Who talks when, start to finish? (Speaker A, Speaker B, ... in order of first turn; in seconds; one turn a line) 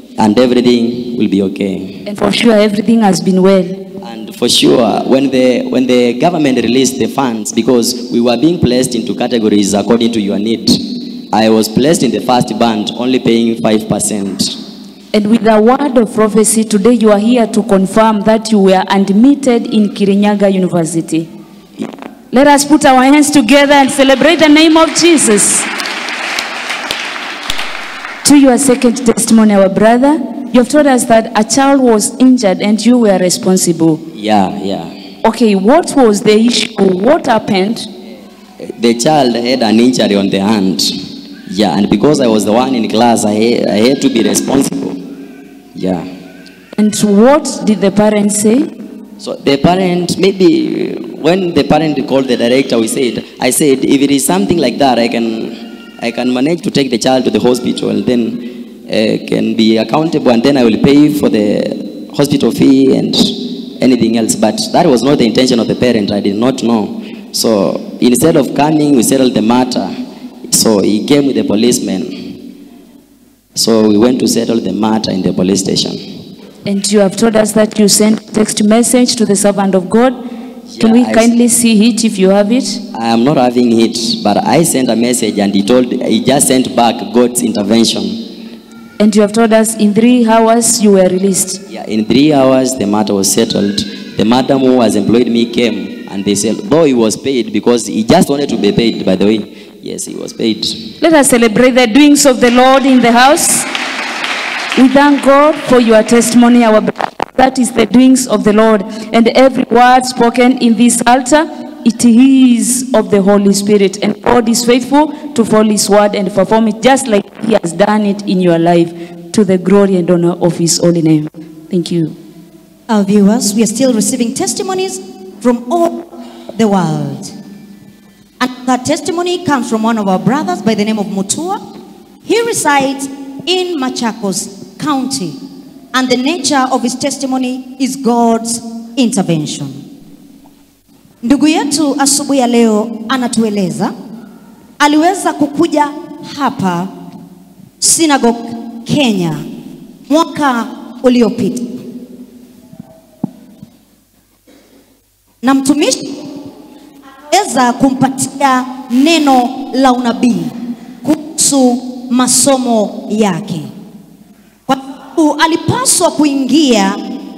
Speaker A: 0.2-2.0
Speaker B: 2.0-3.8
Speaker A: 4.0-14.6
Speaker B: 15.1-21.3
Speaker B: 22.3-25.7
Speaker B: 28.2-34.0
Speaker A: 34.1-34.9
Speaker B: 35.2-37.9
Speaker A: 38.6-41.0
Speaker A: 41.5-45.0
Speaker A: 45.8-46.1
Speaker B: 46.8-48.7
Speaker A: 49.2-69.9
Speaker A: 70.5-72.3
Speaker A: 73.6-76.0
Speaker B: 76.7-80.2
Speaker A: 80.7-81.3
Speaker B: 80.8-82.8
Speaker A: 82.9-88.2
Speaker B: 89.0-91.6
Speaker A: 91.7-100.9
Speaker B: 101.0-103.7
Speaker B: 104.8-122.2
Speaker C: 122.9-127.3
Speaker C: 128.4-131.6
Speaker C: 132.2-135.3
Speaker C: 135.9-139.7
Speaker C: 141.2-143.9
Speaker C: 144.8-146.9
Speaker C: 147.8-149.4
Speaker C: 150.1-151.7
Speaker C: 155.4-156.2
Speaker C: 157.3-160.5
Speaker C: 161.0-163.7
Speaker C: 164.7-167.0